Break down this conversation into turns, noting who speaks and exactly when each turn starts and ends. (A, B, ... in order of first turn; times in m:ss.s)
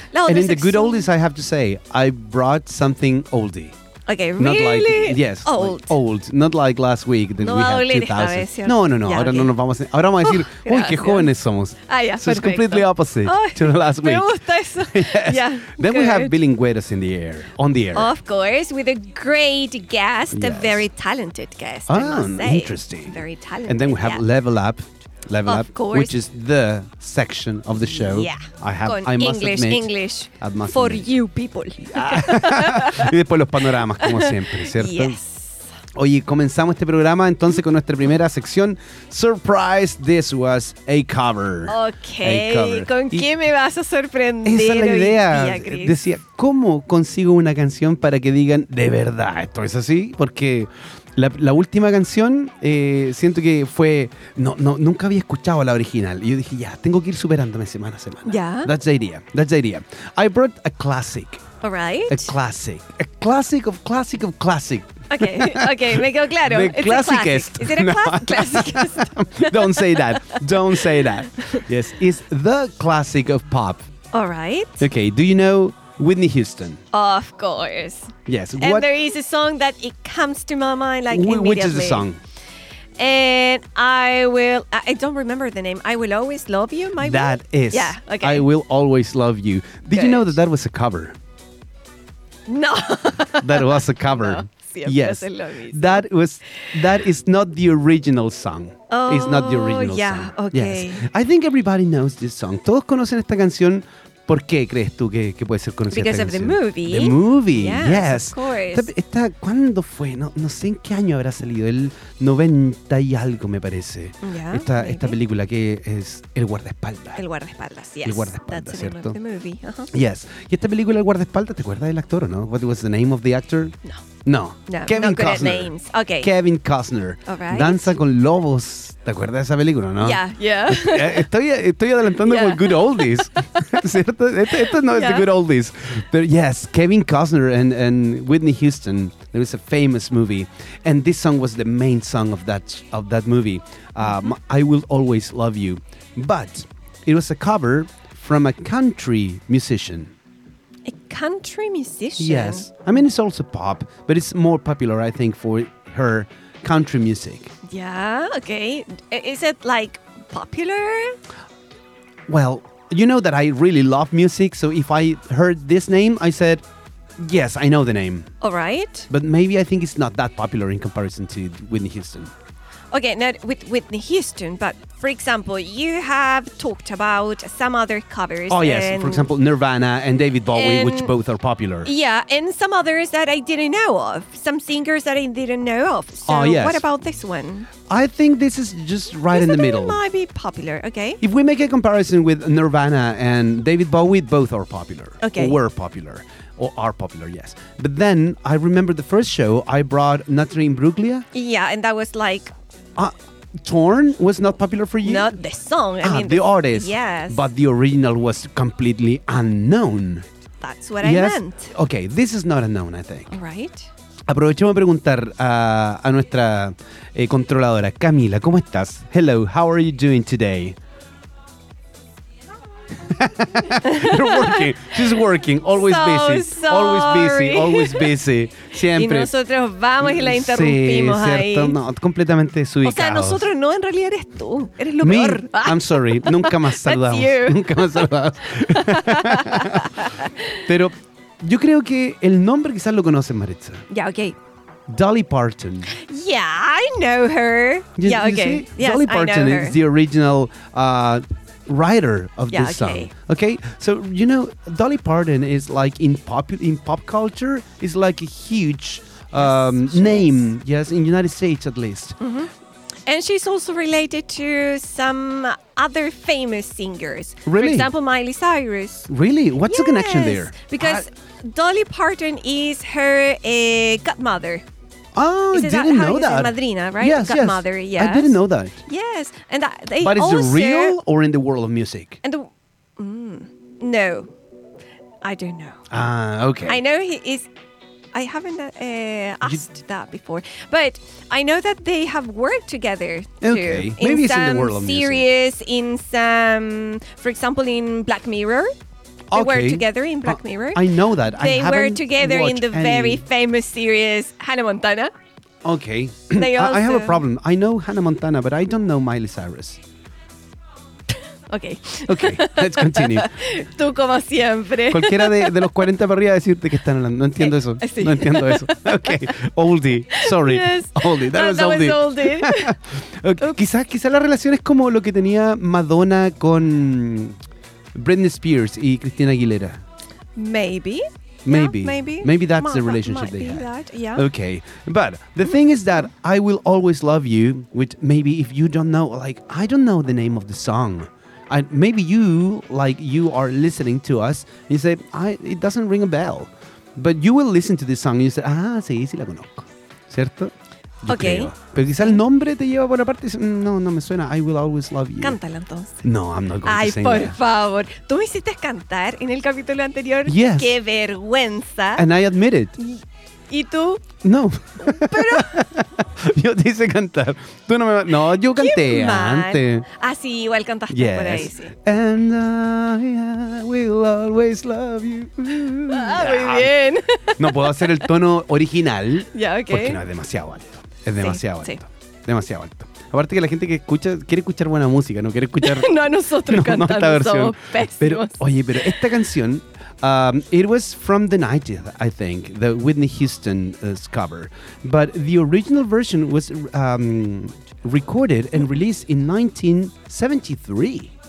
0:00.1-0:01.1 A
0:00.2-0:03.8 B
0:04.1-0:06.0 A
0:04.4-0:18.1 B
0:07.4-0:09.5 A
0:10.2-0:11.3 A
0:11.9-0:16.4 A
0:17.9-0:24.2 A
0:20.3-0:20.9 B
0:21.9-0:31.1 B
0:25.5-0:26.2 A
0:27.9-0:33.2 A
0:31.8-0:35.2 B
0:33.7-0:35.7 A
0:36.0-0:43.3 B
0:41.7-0:46.0 A
0:44.4-1:01.4 B
0:58.3-0:58.7 A
1:01.6-1:02.3 A
1:02.1-1:13.9 B
1:05.1-1:11.6 A
1:14.1-1:14.8 A
1:14.8-1:16.8 B
1:16.9-1:22.1 A
1:18.3-1:18.9 B
1:21.1-1:22.2 B
1:23.0-1:28.4 A
1:27.0-1:31.2 B
1:29.9-1:30.3 A
1:32.5-1:36.1 A
1:33.4-1:57.2 B
1:38.9-1:41.1 A
1:45.9-1:48.9 A
1:54.2-1:55.2 A
1:57.2-1:59.9 A
1:58.0-1:59.2 B
1:59.9-2:30.1 B
2:04.7-2:06.3 A
2:07.3-2:08.0 A
2:10.0-2:11.3 A
2:12.2-2:13.4 A
2:14.5-2:15.3 A
2:24.0-2:24.3 A
2:30.9-2:32.7 A
2:32.2-2:37.5 B
2:37.6-2:41.2 A
2:42.3-2:46.6 B
2:47.2-2:48.3 B
2:48.4-2:49.1 A
2:49.1-2:52.3 B
2:52.9-2:59.3 A
2:58.5-3:01.9 B
3:00.5-3:01.1 A
3:01.8-3:07.7 A
3:06.3-3:06.8 B
3:07.9-3:10.0 B
3:09.3-3:11.2 A
3:11.2-3:21.2 B
3:15.2-3:15.6 A
3:21.3-3:22.5 A
3:23.0-3:25.3 B
3:25.0-3:27.4 A
3:26.0-3:30.3 B
3:30.6-3:31.7 A
3:31.0-3:33.3 B
3:33.3-3:33.9 A
3:34.3-3:40.8 B
3:43.0-3:49.3 B
3:43.8-3:45.2 A
3:45.7-3:48.1 A
3:48.9-3:51.8 A
3:50.0-3:53.5 B
3:52.8-3:58.1 A
3:55.0-4:00.0 B
3:58.7-4:00.6 A
4:00.6-4:03.9 B
4:03.9-4:04.4 A
4:04.9-4:05.9 B
4:05.9-4:09.8 A
4:08.0-4:22.2 B
4:12.5-4:13.1 A
4:19.4-4:20.4 A
4:22.2-4:22.5 A
4:23.1-4:29.1 A
4:27.5-4:27.9 B
4:29.1-4:31.0 B
4:29.6-4:34.6 A
4:35.2-4:38.8 B
4:35.5-4:41.0 A
4:40.0-4:42.2 B
4:42.2-4:44.3 A
4:45.2-4:45.9 A
4:45.9-4:46.8 B
4:46.7-4:47.5 A
4:48.1-4:58.7 A
4:53.4-4:55.3 B
4:59.3-5:03.2 B
4:59.3-5:05.1 A
5:05.6-5:09.8 B
5:06.3-5:07.2 A
5:11.5-5:15.7 A
5:12.1-5:13.3 B
5:14.9-5:27.4 B
5:17.4-5:19.3 A
5:20.2-5:22.8 A
5:27.9-5:29.8 B
5:30.4-5:34.3 A
5:31.5-5:50.5 B
5:51.0-5:55.4 B
5:51.1-5:52.2 A
5:55.2-5:56.0 A
5:56.0-5:57.4 B
5:56.6-6:02.1 A
6:00.3-6:00.8 B
6:02.0-6:02.8 B
6:02.8-6:04.0 A
6:04.2-6:09.9 B
6:04.8-6:05.7 A
6:08.5-6:11.7 A
6:10.9-6:41.1 B
6:15.9-6:18.1 A
6:19.3-6:20.0 A
6:21.2-6:21.8 A
6:25.6-6:29.0 A